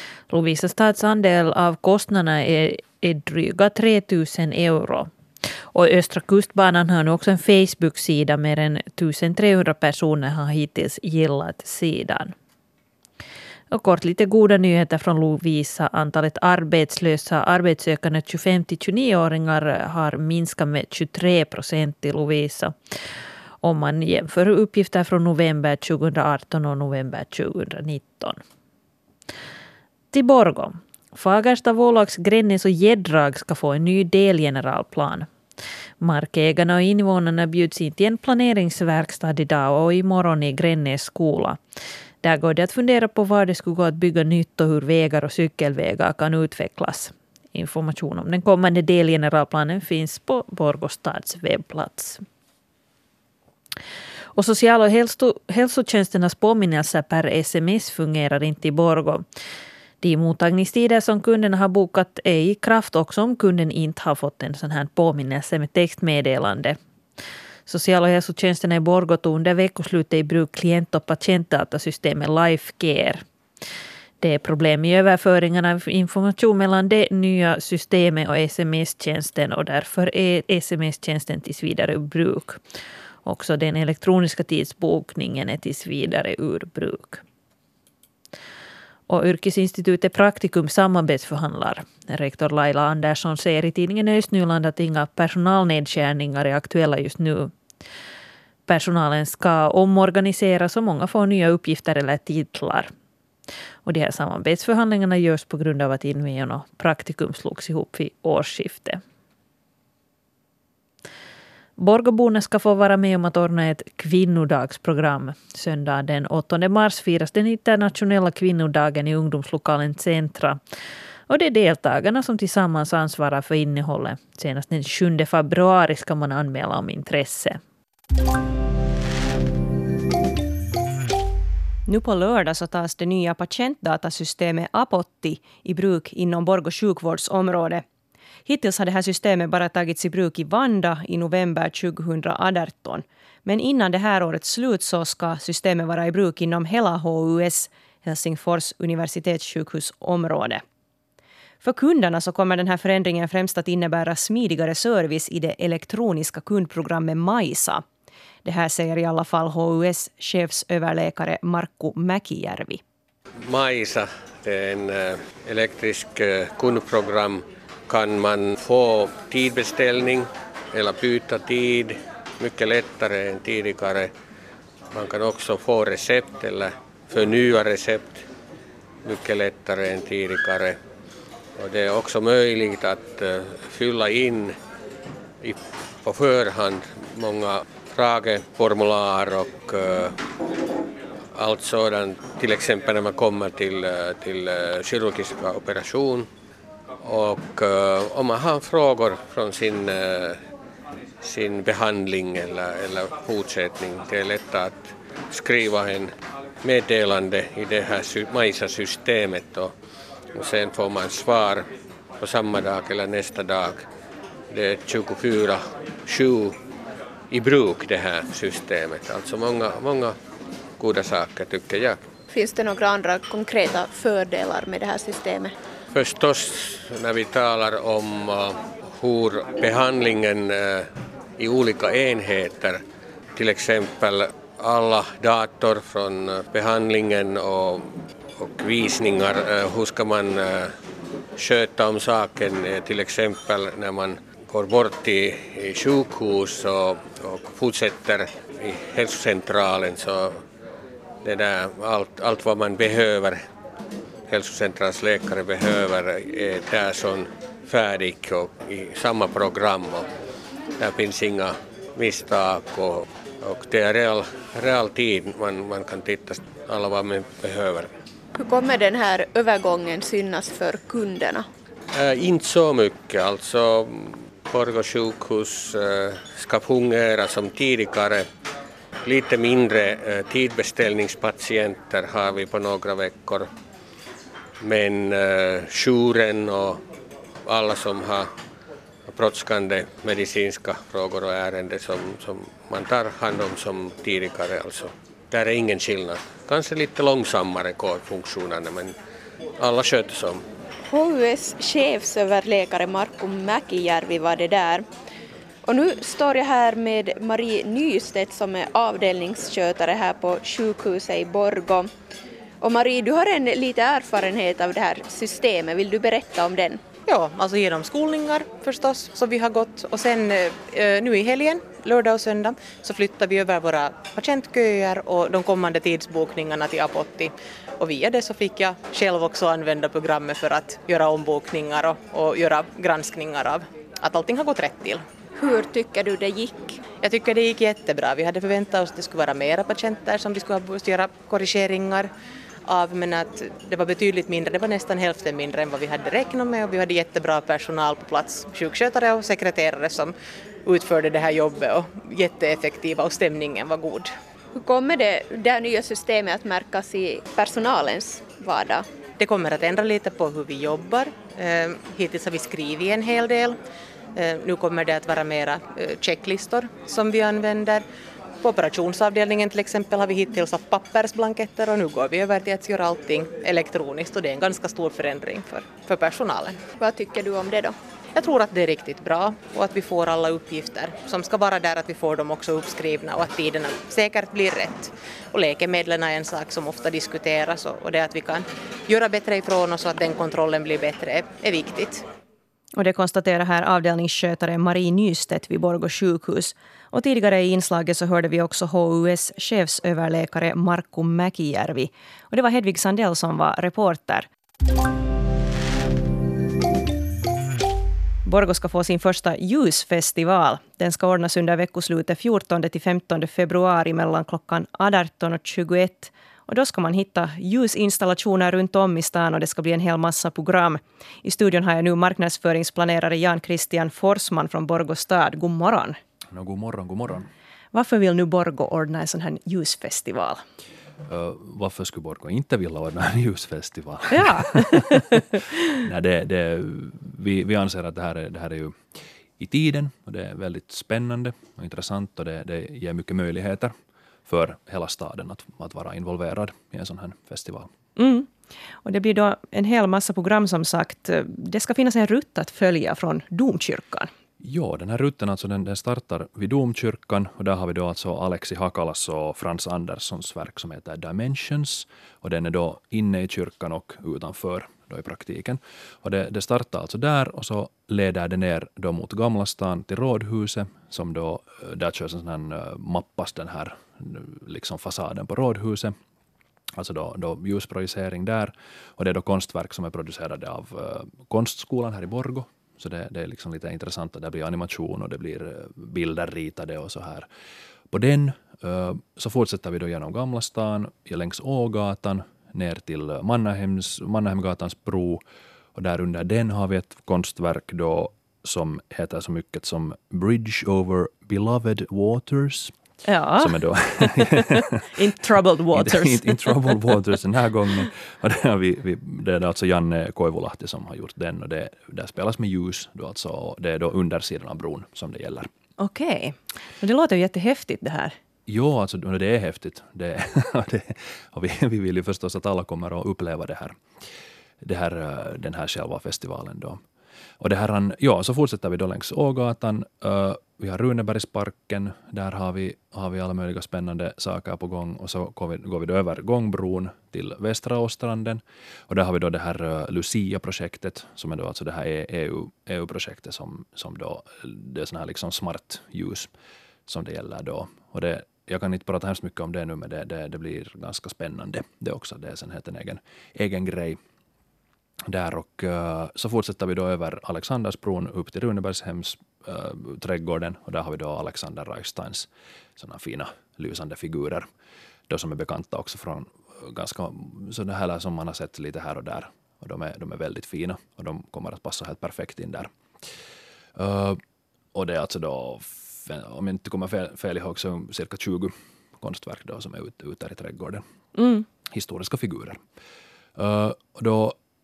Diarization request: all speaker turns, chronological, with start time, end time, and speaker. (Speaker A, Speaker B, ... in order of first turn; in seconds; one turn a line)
Speaker A: 0.3-5.1
Speaker A: 5.7-12.3
Speaker A: 13.7-22.7
Speaker A: 23.6-28.4
Speaker A: 30.1-35.3
Speaker A: 36.0-41.6
Speaker A: 42.2-52.2
Speaker A: 54.4-59.2
Speaker A: 60.0-66.8
Speaker A: 67.7-73.2
Speaker A: 74.2-82.6
Speaker A: 83.2-87.2
Speaker A: 89.1-97.5
Speaker A: 98.7-102.9
Speaker A: 103.8-109.0
Speaker A: 111.8-120.6
Speaker A: 121.3-127.6
Speaker B: 131.9-137.8
Speaker B: 138.4-150.6
Speaker B: 151.6-157.8
Speaker B: 158.4-162.8
Speaker C: 163.4-174.1
Speaker C: 174.9-178.2
Speaker C: 179.0-180.8
Speaker C: 181.6-184.5
Speaker C: 185.4-190.1
Speaker C: 191.3-196.3
Speaker C: 197.0-200.4
Speaker C: 201.2-209.7
Speaker C: 210.3-211.6
Speaker C: 212.2-213.8
Speaker C: 214.5-216.6
Speaker C: 217.3-220.2
Speaker C: 220.8-222.0
Speaker D: 222.3-225.5
Speaker C: 225.9-232.8
Speaker C: 233.3-240.7
Speaker C: 241.4-250.4
Speaker C: 251.2-253.4
Speaker C: 254.3-260.1
Speaker C: 260.8-267.9
Speaker D: 268.4-271.5
Speaker C: 271.9-278.2
Speaker C: 279.0-283.5
Speaker C: 284.6-286.8
Speaker C: 287.4-288.3
Speaker C: 289.1-298.9
Speaker C: 299.6-300.4
Speaker D: 300.9-304.9
Speaker D: 305.6-311.9
Speaker D: 312.6-316.8
Speaker E: 317.1-335.0
Speaker D: 335.4-336.8
Speaker E: 337.0-342.1
Speaker E: 342.7-350.1
Speaker E: 350.6-354.1
Speaker D: 354.5-358.9
Speaker E: 359.2-363.5
Speaker E: 364.1-367.8
Speaker E: 368.4-376.6
Speaker D: 376.8-377.8
Speaker E: 378.1-392.0
Speaker B: 392.8-404.2
Speaker B: 408.2-426.0
Speaker F: 426.3-427.3
Speaker B: 427.7-430.4
Speaker F: 431.1-435.0
Speaker B: 434.1-435.4
Speaker F: 435.8-438.7
Speaker F: 439.4-443.7
Speaker F: 444.2-447.7
Speaker B: 447.9-448.3
Speaker B: 448.8-454.1
Speaker F: 454.4-475.9
Speaker F: 476.8-487.3
Speaker F: 487.9-495.2
Speaker F: 495.7-502.7
Speaker B: 503.0-506.9
Speaker F: 503.4-504.8
Speaker F: 505.7-515.5
Speaker B: 515.8-518.1
Speaker F: 518.5-523.7
Speaker F: 524.6-526.8
Speaker F: 527.4-546.3
Speaker F: 546.9-554.0
Speaker F: 555.1-564.4
Speaker F: 565.1-572.7
Speaker F: 573.8-574.2
Speaker F: 574.7-580.8
Speaker B: 581.1-581.4
Speaker F: 581.7-582.6
Speaker F: 583.4-584.3